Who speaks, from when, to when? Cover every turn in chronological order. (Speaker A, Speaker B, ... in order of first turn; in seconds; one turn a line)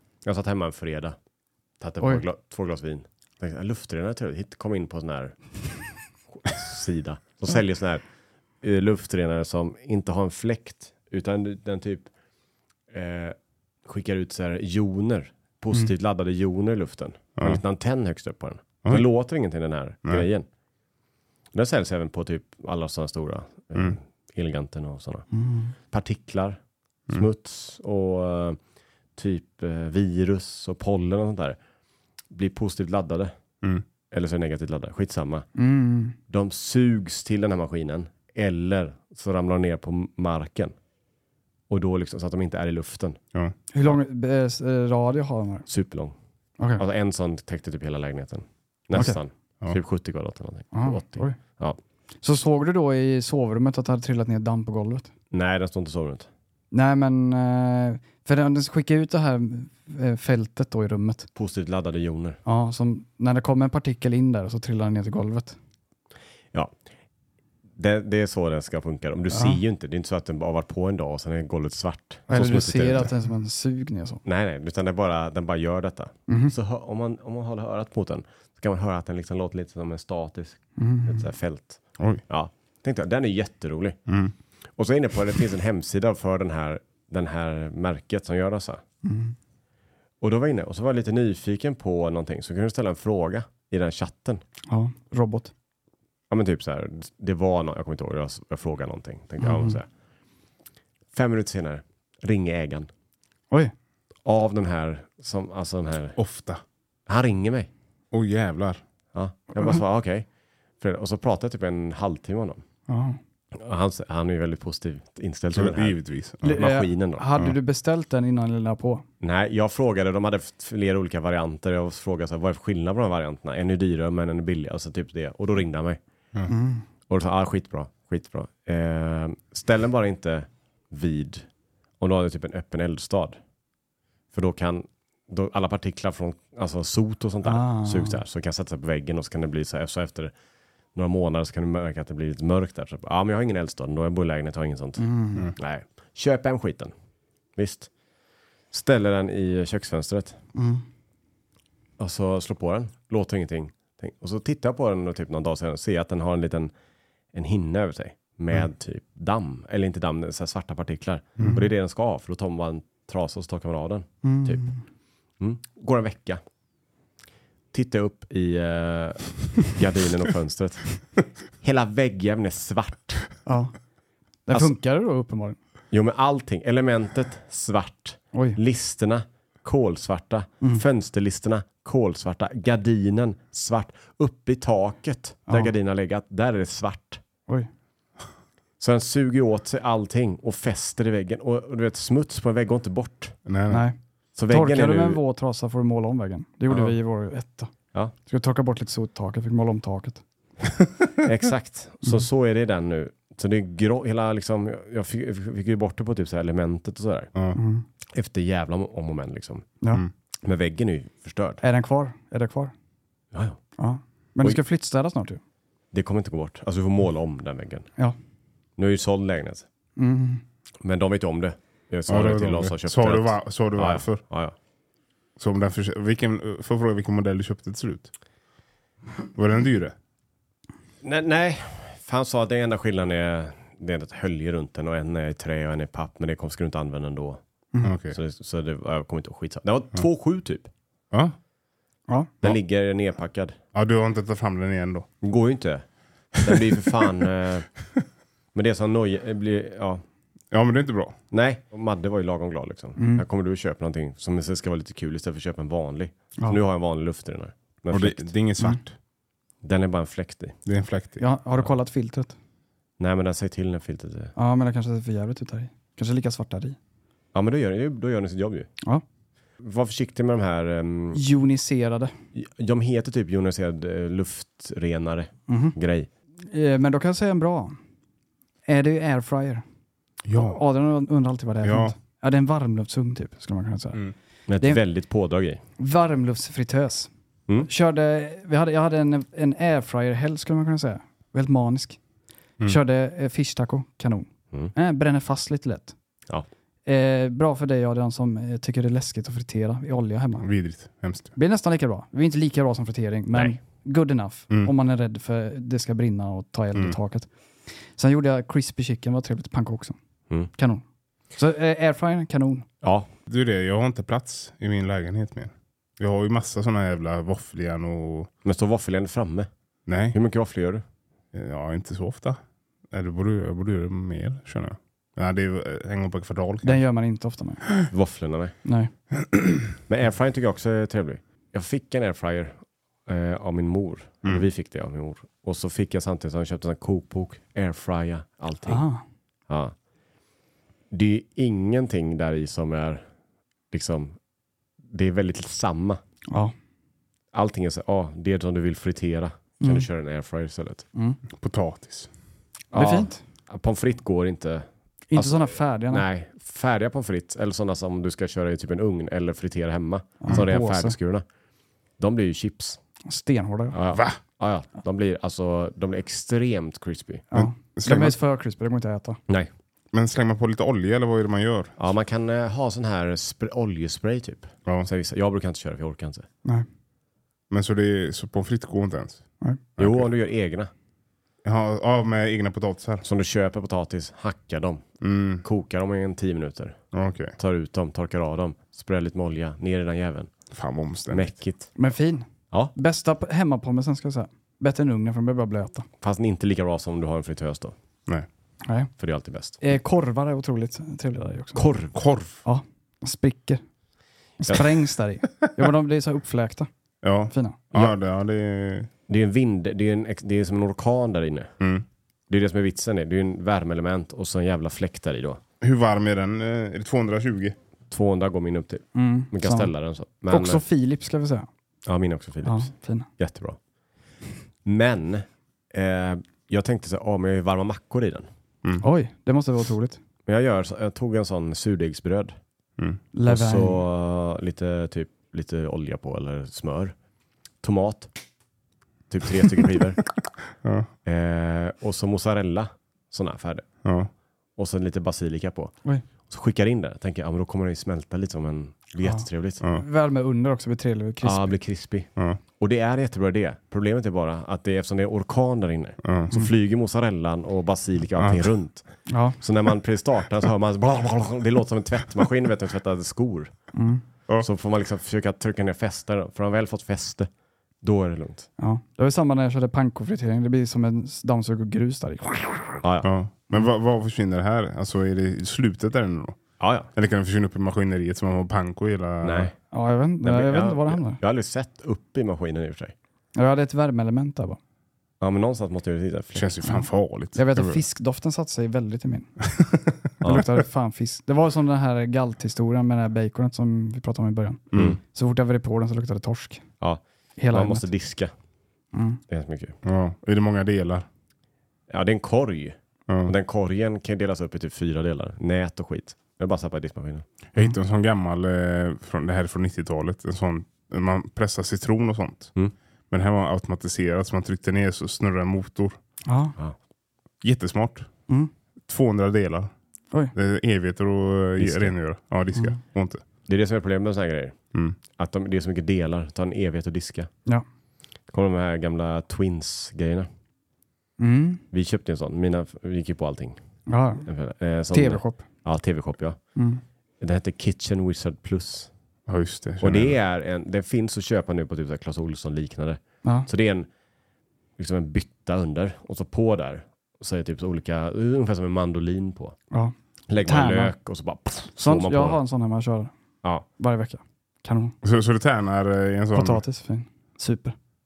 Speaker A: 0.2-1.2
Speaker A: 1.8-5.4
Speaker A: 6.3-8.0
Speaker A: 8.6-12.1
Speaker A: 12.9-20.5
Speaker A: 21.5-25.3
Speaker B: 25.3-25.7
Speaker A: 25.9-26.6
Speaker A: 27.1-28.6
Speaker A: 29.2-31.6
Speaker A: 32.3-33.3
Speaker A: 34.1-35.5
Speaker B: 35.5-36.2
Speaker A: 36.3-40.7
Speaker A: 41.7-43.2
Speaker B: 43.7-45.7
Speaker A: 45.7-46.1
Speaker A: 46.8-51.8
Speaker B: 50.7-51.4
Speaker B: 52.2-55.1
Speaker A: 55.3-56.3
Speaker B: 56.7-61.3
Speaker A: 61.4-62.4
Speaker B: 62.5-65.6
Speaker A: 67.8-73.1
Speaker B: 69.3-69.6
Speaker B: 72.3-74.2
Speaker A: 74.2-84.0
Speaker B: 76.3-76.5
Speaker B: 80.8-81.3
Speaker C: 84.1-84.3
Speaker A: 84.8-88.8
Speaker B: 89.0-89.3
Speaker A: 90.2-94.4
Speaker B: 94.7-95.5
Speaker A: 96.3-99.9
Speaker B: 99.4-99.8
Speaker A: 101.1-102.9
Speaker A: 104.2-106.2
Speaker C: 106.2-106.6
Speaker A: 107.1-107.7
Speaker C: 108.1-108.8
Speaker A: 109.1-110.3
Speaker A: 110.8-112.6
Speaker B: 112.9-113.2
Speaker A: 113.5-117.3
Speaker C: 115.5-116.6
Speaker B: 116.4-119.0
Speaker A: 119.2-126.0
Speaker B: 126.5-126.8
Speaker A: 127.1-131.5
Speaker A: 132.0-133.4
Speaker A: 134.3-140.3
Speaker B: 137.4-138.2
Speaker A: 140.9-146.9
Speaker B: 145.0-145.5
Speaker A: 147.6-147.9
Speaker A: 148.7-150.4
Speaker B: 150.6-150.8
Speaker A: 152.0-156.7
Speaker A: 157.3-164.6
Speaker B: 164.2-164.8
Speaker A: 165.4-166.4
Speaker A: 167.7-171.0
Speaker A: 171.6-173.2
Speaker B: 173.5-173.7
Speaker B: 174.5-175.6
Speaker A: 175.9-187.2
Speaker B: 178.3-178.6
Speaker A: 188.8-193.4
Speaker C: 193.5-193.9
Speaker B: 193.7-194.0
Speaker A: 194.4-195.2
Speaker B: 194.5-197.7
Speaker A: 196.7-196.9
Speaker B: 198.3-200.2
Speaker A: 201.2-207.3
Speaker B: 207.6-207.8
Speaker A: 208.1-209.7
Speaker A: 210.4-211.6
Speaker B: 211.6-212.7
Speaker A: 213.3-213.6
Speaker B: 213.8-215.4
Speaker A: 215.9-217.9
Speaker A: 218.8-219.7
Speaker B: 220.0-220.4
Speaker A: 220.8-224.6
Speaker C: 222.1-224.2
Speaker C: 225.4-228.1
Speaker C: 229.3-229.9
Speaker A: 231.0-237.4
Speaker C: 237.8-238.2
Speaker A: 238.1-240.7
Speaker A: 242.4-243.6
Speaker C: 243.7-245.1
Speaker A: 245.2-245.8
Speaker A: 246.4-247.7
Speaker A: 248.5-250.0
Speaker C: 250.5-251.2
Speaker A: 251.3-258.3
Speaker B: 253.0-253.2
Speaker C: 257.9-259.0
Speaker A: 259.6-260.6
Speaker C: 260.6-261.2
Speaker B: 261.2-262.4
Speaker A: 263.0-264.3
Speaker B: 264.4-266.8
Speaker A: 267.3-268.7
Speaker A: 269.6-271.2
Speaker B: 271.1-272.1
Speaker A: 272.3-276.1
Speaker B: 275.5-275.8
Speaker B: 276.5-277.8
Speaker B: 278.7-279.6
Speaker C: 280.2-280.6
Speaker B: 280.4-284.0
Speaker C: 281.6-281.9
Speaker A: 284.5-285.6
Speaker B: 285.8-287.1
Speaker B: 287.6-292.0
Speaker B: 292.6-295.9
Speaker B: 296.9-300.5
Speaker C: 300.4-301.3
Speaker B: 301.4-307.3
Speaker A: 303.3-303.6
Speaker B: 308.0-310.0
Speaker B: 310.6-310.8
Speaker B: 311.4-312.6
Speaker A: 312.8-313.1
Speaker C: 313.3-318.3
Speaker A: 318.4-319.5
Speaker C: 319.9-320.2
Speaker A: 320.1-320.8
Speaker C: 321.3-322.4
Speaker C: 322.9-326.8
Speaker B: 326.6-327.6
Speaker A: 327.9-328.6
Speaker B: 328.6-328.9
Speaker A: 329.9-338.8
Speaker B: 338.7-339.0
Speaker A: 339.5-339.7
Speaker A: 340.9-343.1
Speaker A: 343.7-344.1
Speaker A: 344.9-346.0
Speaker A: 347.3-350.9
Speaker B: 349.6-349.9
Speaker C: 351.3-352.1
Speaker A: 352.7-361.2
Speaker B: 352.7-353.2
Speaker B: 355.1-356.1
Speaker B: 360.2-361.0
Speaker A: 362.0-362.8
Speaker B: 363.1-363.8
Speaker A: 363.7-367.3
Speaker C: 363.9-364.2
Speaker B: 367.3-369.2
Speaker C: 367.3-368.2
Speaker C: 369.9-371.7
Speaker A: 371.8-376.3
Speaker C: 377.5-379.2
Speaker C: 379.8-380.1
Speaker A: 379.8-380.7
Speaker C: 381.4-383.0
Speaker A: 383.0-384.8
Speaker C: 385.0-385.4
Speaker A: 385.4-386.8
Speaker C: 386.9-387.4
Speaker A: 387.4-390.3
Speaker C: 390.5-391.3
Speaker A: 391.1-391.7
Speaker B: 391.8-395.9
Speaker A: 396.0-397.8
Speaker B: 398.6-398.9
Speaker A: 399.0-399.6
Speaker B: 399.6-401.7
Speaker A: 401.6-402.0
Speaker C: 401.9-402.4
Speaker B: 402.4-403.6
Speaker B: 404.4-406.7
Speaker C: 407.0-408.9
Speaker B: 407.3-407.6
Speaker A: 409.1-411.5
Speaker C: 411.6-411.9
Speaker A: 412.3-415.4
Speaker C: 415.6-417.6
Speaker A: 417.9-420.6
Speaker B: 418.9-419.7
Speaker B: 420.3-421.5
Speaker A: 421.9-423.6
Speaker B: 422.4-423.1
Speaker A: 424.6-428.3
Speaker B: 428.8-430.0
Speaker A: 430.3-432.4
Speaker B: 433.1-433.8
Speaker A: 433.3-436.9
Speaker A: 437.6-438.1
Speaker A: 439.1-440.0
Speaker C: 440.6-440.9
Speaker A: 441.1-443.7
Speaker C: 443.8-444.1
Speaker A: 444.6-445.7
Speaker A: 446.3-449.6
Speaker B: 449.0-451.5
Speaker A: 451.2-458.9
Speaker C: 456.0-456.3
Speaker C: 458.2-458.5
Speaker B: 459.1-459.4
Speaker A: 459.4-463.5
Speaker B: 463.7-464.0
Speaker A: 464.4-467.3
Speaker A: 467.8-468.5
Speaker B: 468.6-472.8
Speaker A: 472.8-473.1
Speaker C: 473.0-476.4
Speaker A: 476.6-476.9
Speaker C: 476.9-479.5
Speaker A: 479.2-479.6
Speaker B: 479.7-481.2
Speaker A: 480.2-482.9
Speaker B: 483.4-484.6
Speaker A: 485.2-486.6
Speaker C: 486.4-487.8
Speaker B: 487.4-489.3
Speaker B: 490.2-496.6
Speaker C: 494.7-495.0
Speaker A: 494.7-495.0
Speaker A: 496.8-498.3
Speaker B: 497.4-497.9
Speaker B: 498.9-499.2
Speaker A: 499.3-499.8
Speaker C: 499.8-501.1
Speaker A: 501.9-507.3
Speaker C: 507.5-512.5
Speaker C: 513.1-516.0
Speaker B: 516.3-516.5
Speaker C: 517.4-518.1
Speaker C: 518.9-519.7
Speaker C: 520.3-523.2
Speaker A: 521.6-522.0
Speaker A: 523.5-524.6
Speaker A: 525.2-527.3
Speaker A: 528.3-530.3
Speaker B: 531.2-531.6
Speaker A: 531.7-533.6
Speaker B: 533.9-534.3
Speaker A: 534.2-536.4
Speaker B: 534.9-535.5
Speaker B: 536.6-536.8
Speaker A: 537.2-538.9
Speaker C: 539.3-540.1
Speaker A: 539.8-543.9
Speaker A: 544.8-549.6
Speaker B: 549.7-551.0
Speaker A: 550.3-552.4
Speaker B: 551.8-553.1
Speaker B: 553.8-555.0
Speaker C: 555.0-556.6
Speaker B: 556.3-557.8